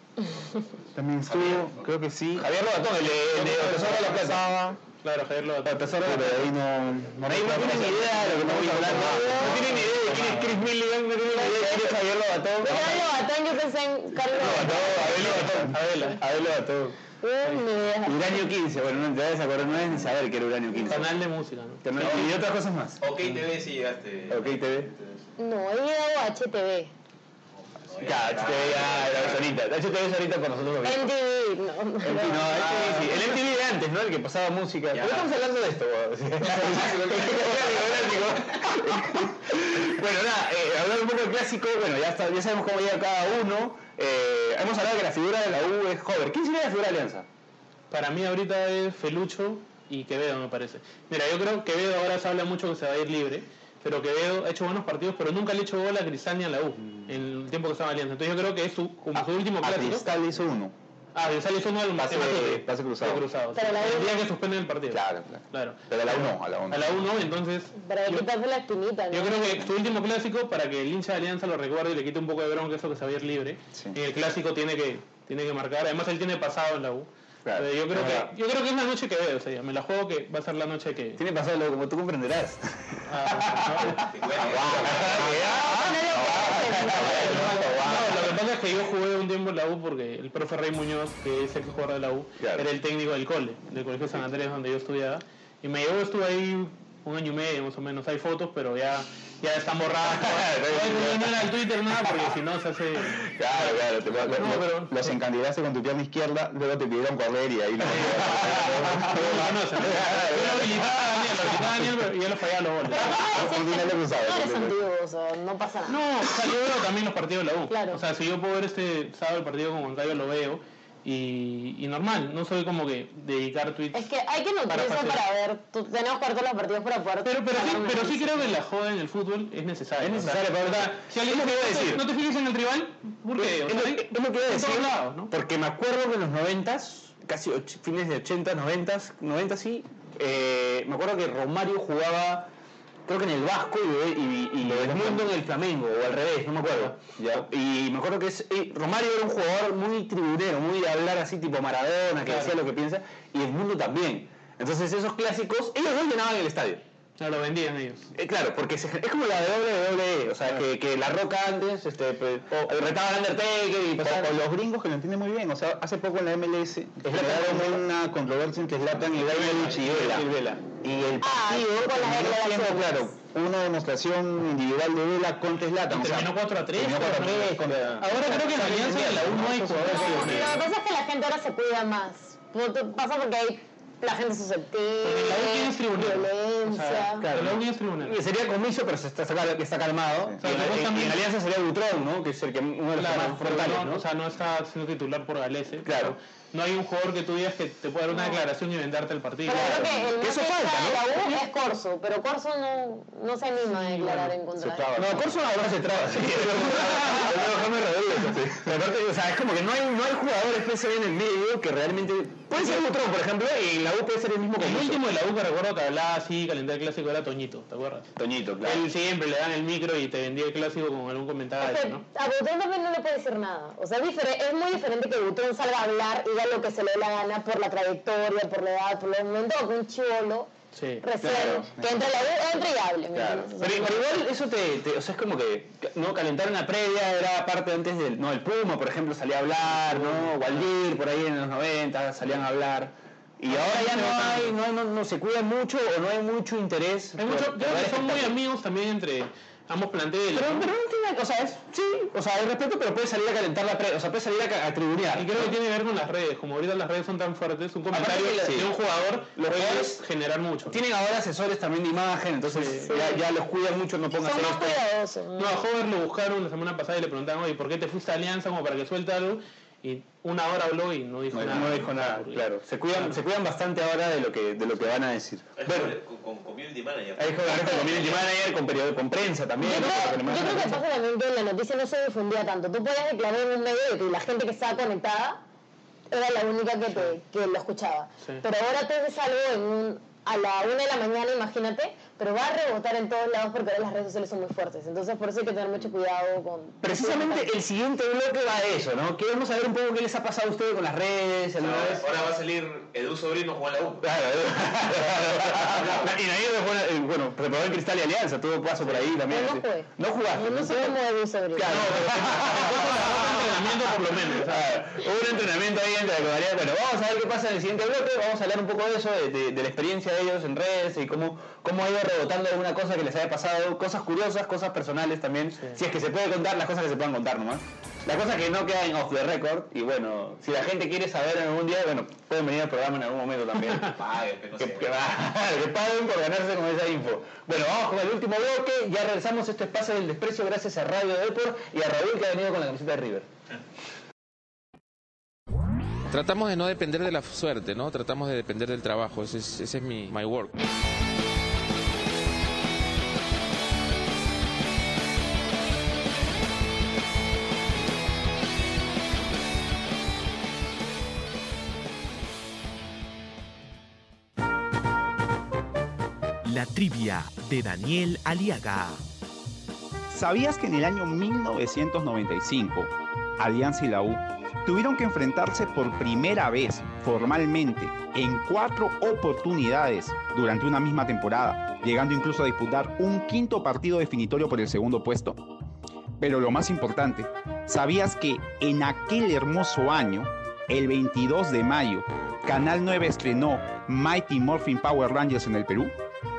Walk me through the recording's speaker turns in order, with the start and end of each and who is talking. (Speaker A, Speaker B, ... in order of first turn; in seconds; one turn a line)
Speaker A: 0.9-2.5
Speaker B: 2.3-4.5
Speaker A: 3.3-4.8
Speaker C: 5.0-5.9
Speaker B: 5.6-6.5
Speaker A: 6.0-9.9
Speaker B: 7.2-13.2
Speaker C: 8.5-10.7
Speaker D: 8.9-9.8
Speaker D: 11.3-12.0
Speaker D: 12.6-15.3
Speaker B: 14.3-17.0
Speaker A: 14.9-15.8
Speaker C: 15.6-16.2
Speaker D: 17.2-18.5
Speaker B: 18.0-21.2
Speaker C: 20.8-22.3
Speaker B: 21.8-23.0
Speaker E: 23.0-25.3
Speaker B: 24.3-24.9
Speaker D: 25.4-26.9
Speaker E: 27.8-29.5
Speaker B: 28.0-31.1
Speaker D: 30.8-33.0
Speaker B: 32.0-47.2
Speaker E: 32.5-33.1
Speaker E: 34.9-35.3
Speaker E: 36.4-38.7
Speaker C: 47.9-60.1
Speaker A: 59.6-60.7
Speaker C: 61.1-68.2
Speaker A: 62.0-63.3
Speaker D: 63.5-64.2
Speaker A: 64.9-67.0
Speaker D: 67.8-69.7
Speaker C: 69.1-81.2
Speaker A: 73.7-74.0
Speaker B: 77.4-78.3
Speaker B: 81.2-88.4
Speaker C: 83.1-84.1
Speaker E: 83.9-85.6
Speaker A: 84.6-85.6
Speaker D: 85.3-87.8
Speaker A: 86.1-88.1
Speaker C: 87.0-105.1
Speaker B: 92.4-92.7
Speaker B: 100.0-102.3
Speaker B: 103.0-104.7
Speaker A: 104.3-110.5
Speaker C: 107.8-113.1
Speaker B: 107.9-111.8
Speaker D: 112.9-116.0
Speaker A: 113.0-114.8
Speaker C: 115.9-124.1
Speaker D: 117.7-118.0
Speaker D: 123.9-128.5
Speaker C: 124.7-125.2
Speaker C: 127.2-135.3
Speaker B: 130.0-132.0
Speaker B: 133.4-142.5
Speaker B: 143.1-156.8
Speaker A: 144.6-145.3
Speaker C: 146.6-146.9
Speaker C: 152.2-152.6
Speaker C: 157.2-158.1
Speaker B: 158.2-164.3
Speaker A: 164.0-170.3
Speaker B: 167.0-167.8
Speaker B: 169.0-170.8
Speaker A: 170.8-180.1
Speaker D: 171.2-173.1
Speaker C: 175.9-180.6
Speaker B: 177.6-180.6
Speaker D: 179.9-187.2
Speaker C: 185.0-188.2
Speaker B: 187.2-194.0
Speaker C: 190.4-191.2
Speaker C: 192.9-199.7
Speaker B: 195.8-196.2
Speaker D: 199.4-205.0
Speaker B: 199.5-201.3
Speaker A: 199.5-200.1
Speaker C: 203.9-204.3
Speaker A: 204.6-205.3
Speaker B: 204.9-215.0
Speaker A: 208.2-208.7
Speaker C: 214.6-222.0
Speaker B: 218.2-218.8
Speaker D: 221.6-230.5
Speaker C: 230.7-231.1
Speaker D: 231.0-234.2
Speaker B: 231.2-231.7
Speaker A: 231.3-232.0
Speaker B: 233.1-248.3
Speaker C: 239.7-240.7
Speaker C: 243.5-244.6
Speaker C: 247.2-250.7
Speaker B: 250.3-255.5
Speaker C: 255.1-260.8
Speaker B: 257.9-258.7
Speaker B: 259.4-260.0
Speaker B: 260.7-264.8
Speaker C: 262.5-263.0
Speaker D: 262.9-263.3
Speaker D: 264.2-265.6
Speaker C: 265.4-273.2
Speaker B: 271.3-275.9
Speaker E: 275.6-278.3
Speaker B: 277.2-280.8
Speaker D: 279.6-285.4
Speaker D: 286.1-297.5
Speaker B: 296.8-302.1
Speaker E: 301.6-304.1
Speaker B: 304.0-311.0
Speaker E: 304.8-306.1
Speaker C: 308.8-309.1
Speaker D: 309.3-312.0
Speaker B: 311.5-334.0
Speaker C: 311.7-314.7
Speaker E: 333.8-335.1
Speaker B: 334.6-343.3
Speaker F: 346.1-350.5
Speaker G: 366.4-369.0
Speaker A: 370.1-385.4
Speaker A: 386.2-395.9